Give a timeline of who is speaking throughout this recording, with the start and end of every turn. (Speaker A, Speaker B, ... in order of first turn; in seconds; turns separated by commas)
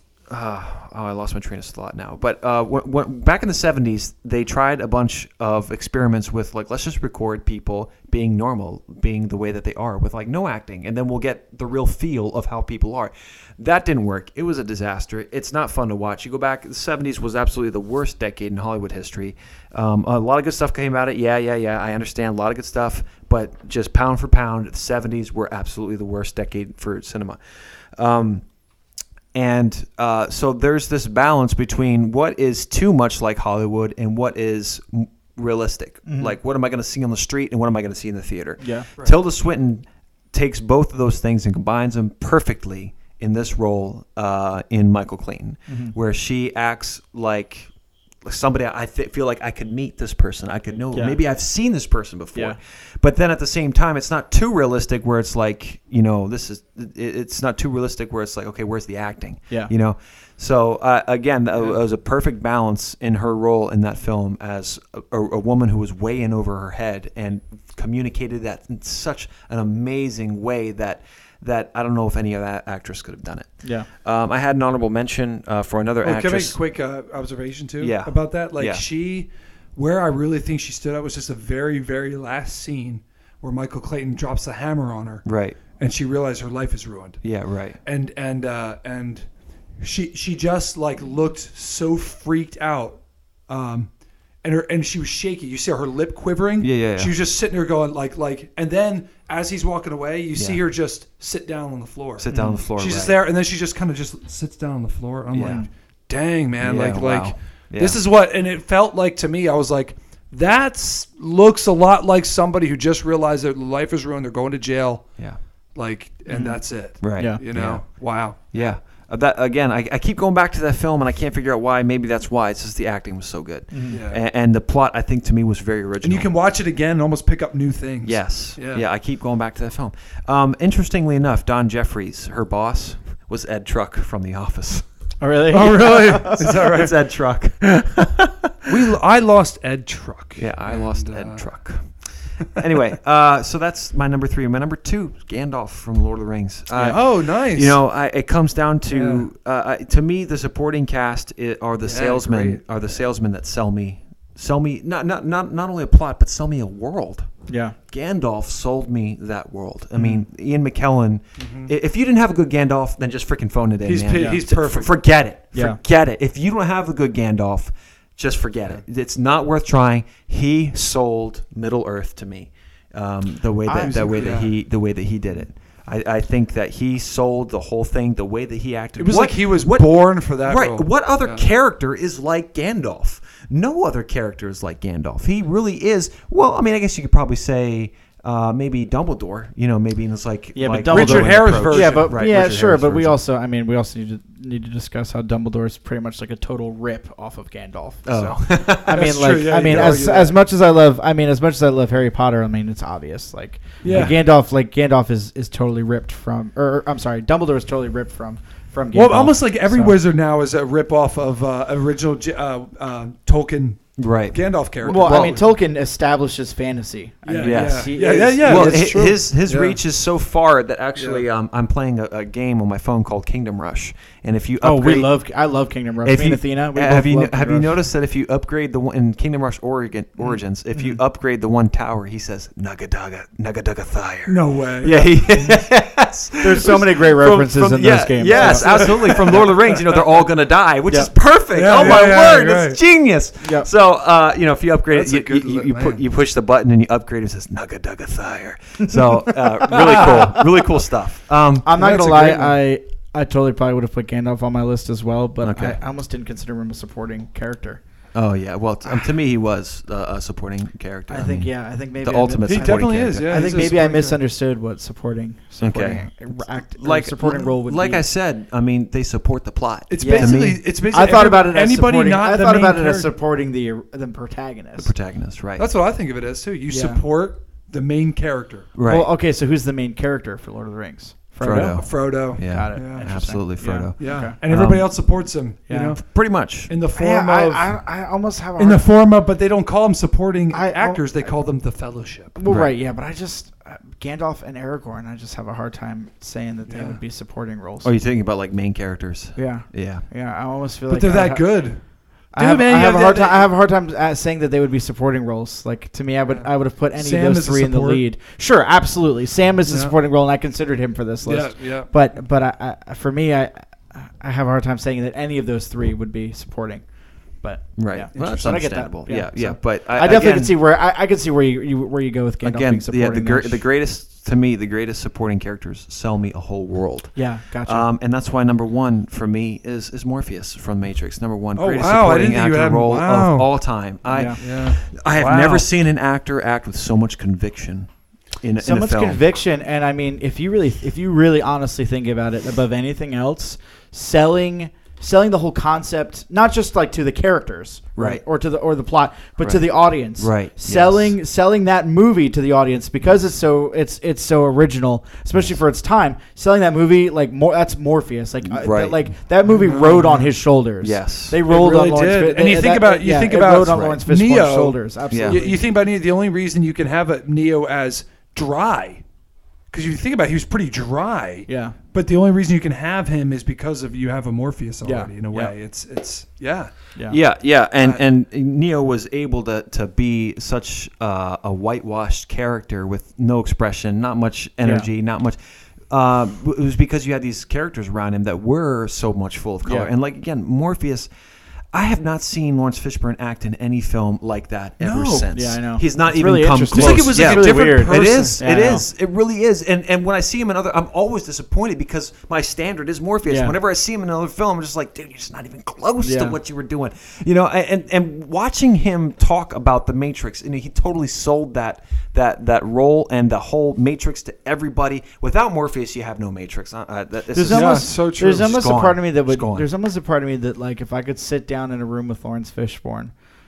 Speaker A: 0.3-28.4, Speaker A: 29.3-47.7, Speaker B: 36.0-36.4, Speaker B: 38.6-38.9, Speaker B: 45.7-45.9, Speaker A: 48.2-76.6, Speaker B: 50.9-51.2, Speaker C: 76.0-87.2, Speaker A: 77.8-78.8, Speaker A: 85.2-85.6, Speaker A: 87.2-87.8, Speaker C: 87.8-89.2, Speaker C: 89.8-93.9, Speaker C: 94.4-115.2, Speaker A: 96.6-97.1, Speaker A: 100.3-100.6, Speaker A: 102.2-103.2, Speaker A: 105.3-105.6, Speaker A: 106.6-108.0, Speaker C: 115.7-118.7, Speaker A: 116.3-126.3, Speaker B: 117.2-117.4, Speaker B: 123.7-124.0, Speaker C: 123.9-124.2, Speaker C: 126.0-128.8, Speaker A: 128.0-134.8, Speaker B: 135.2-136.4, Speaker C: 135.5-136.9, Speaker A: 136.2-138.2, Speaker C: 138.6-141.5, Speaker A: 140.4-157.3, Speaker B: 146.7-147.0, Speaker C: 146.8-147.8, Speaker C: 148.9-149.2, Speaker C: 151.8-152.6, Speaker B: 157.5-157.7, Speaker A: 157.9-193.2, Speaker C: 161.4-161.7, Speaker C: 163.8-164.9, Speaker B: 164.1-164.4, Speaker B: 165.5-165.8, Speaker B: 173.7-174.3, Speaker C: 173.8-174.5, Speaker C: 178.9-181.4, Speaker B: 190.5-210.0, Speaker C: 190.8-192.4, Speaker A: 198.1-199.1, Speaker C: 198.8-200.4, Speaker C: 203.8-204.2, Speaker C: 208.9-215.4, Speaker A: 214.0-215.4, Speaker B: 214.8-219.0, Speaker C: 217.2-219.8, Speaker A: 217.4-225.1, Speaker C: 220.9-221.2, Speaker B: 224.6-227.7, Speaker A: 226.0-252.4, Speaker C: 234.3-235.1, Speaker B: 236.4-239.4, Speaker C: 238.2-240.2, Speaker C: 241.5-242.8, Speaker B: 241.8-242.0, Speaker B: 243.4-243.7, Speaker C: 244.9-246.0, Speaker B: 249.2-250.5, Speaker C: 249.9-250.3, Speaker B: 251.6-257.8, Speaker C: 251.8-252.5, Speaker A: 255.4-255.8, Speaker A: 258.1-263.7, Speaker B: 261.1-268.1, Speaker C: 262.4-264.2, Speaker A: 265.6-270.6, Speaker C: 269.9-273.1, Speaker B: 270.0-274.9, Speaker A: 274.8-275.7, Speaker C: 275.6-278.7, Speaker B: 276.7-277.0, Speaker A: 278.7-279.1, Speaker B: 278.8-284.3, Speaker A: 281.4-284.9, Speaker C: 281.5-286.0, Speaker B: 285.7-285.9, Speaker A: 285.7-286.7, Speaker C: 286.7-287.8, Speaker B: 286.9-288.9, Speaker C: 288.6-292.3, Speaker B: 290.5-291.3, Speaker B: 292.3-297.9, Speaker A: 292.4-292.7, Speaker C: 296.7-297.0, Speaker A: 297.8-300.0, Speaker B: 299.4-301.7, Speaker C: 300.9-301.8, Speaker B: 302.3-316.8, Speaker C: 302.4-303.5, Speaker C: 306.3-308.0, Speaker C: 309.7-309.9, Speaker C: 311.2-311.9, Speaker B: 317.4-323.6, Speaker A: 317.8-320.6, Speaker A: 322.4-339.2, Speaker B: 327.1-327.9, Speaker C: 331.6-333.5, Speaker B: 334.1-334.4, Speaker C: 334.3-335.6, Speaker B: 338.6-365.6, Speaker A: 347.9-348.2, Speaker A: 349.4-349.6, Speaker A: 350.2-351.1, Speaker A: 358.4-359.1, Speaker C: 359.4-360.3, Speaker A: 360.8-361.4, Speaker C: 361.4-369.0, Speaker A: 365.1-365.4, Speaker C: 369.7-377.0, Speaker B: 371.5-371.8, Speaker B: 374.8-375.5, Speaker A: 377.1-391.1, Speaker C: 377.8-378.0, Speaker B: 384.6-384.9, Speaker B: 389.6-389.9, Speaker A: 391.7-419.7, Speaker C: 394.8-395.3, Speaker B: 395.3-398.9, Speaker C: 396.7-398.4, Speaker B: 403.2-403.6, Speaker B: 406.0-406.4, Speaker B: 417.3-423.1, Speaker C: 417.5-418.6